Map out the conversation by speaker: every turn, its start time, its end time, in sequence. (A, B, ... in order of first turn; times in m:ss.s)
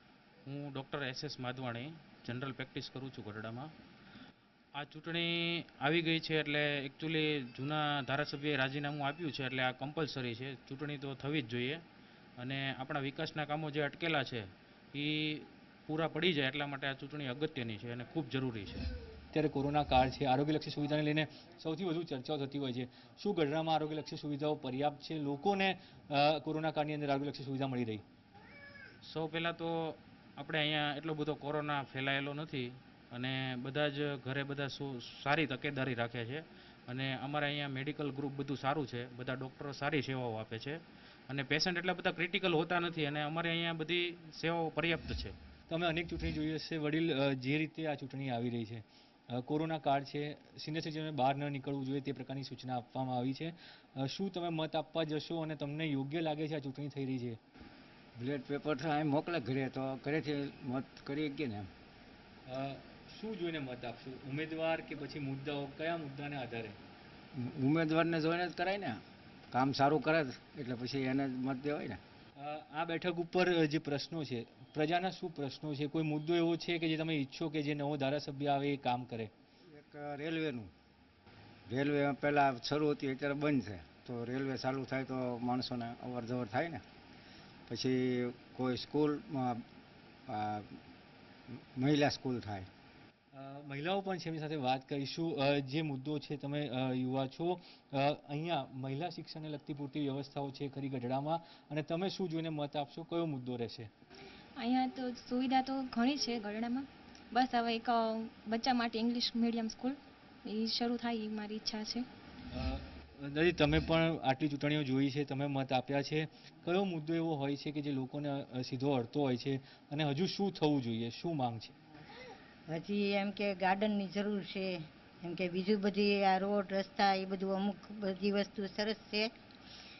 0:00.4-0:03.7 A
0:04.8-0:11.8 A
0:12.4-0:18.9 A
0:19.3-0:28.0 B
0:29.0-0:45.3 A
0:45.7-0:57.4 B
0:58.2-1:01.7 C
1:02.4-1:06.8 B
1:07.3-1:12.0 C
1:12.4-1:19.3 B
1:19.7-1:20.7 C
1:21.7-1:26.8 C
1:27.7-1:29.6 C
1:30.3-1:30.7 C
1:31.5-1:32.7 C
1:33.3-1:43.9 B
1:44.6-1:52.1 D
1:52.5-2:01.7 B
2:02.7-2:09.3 E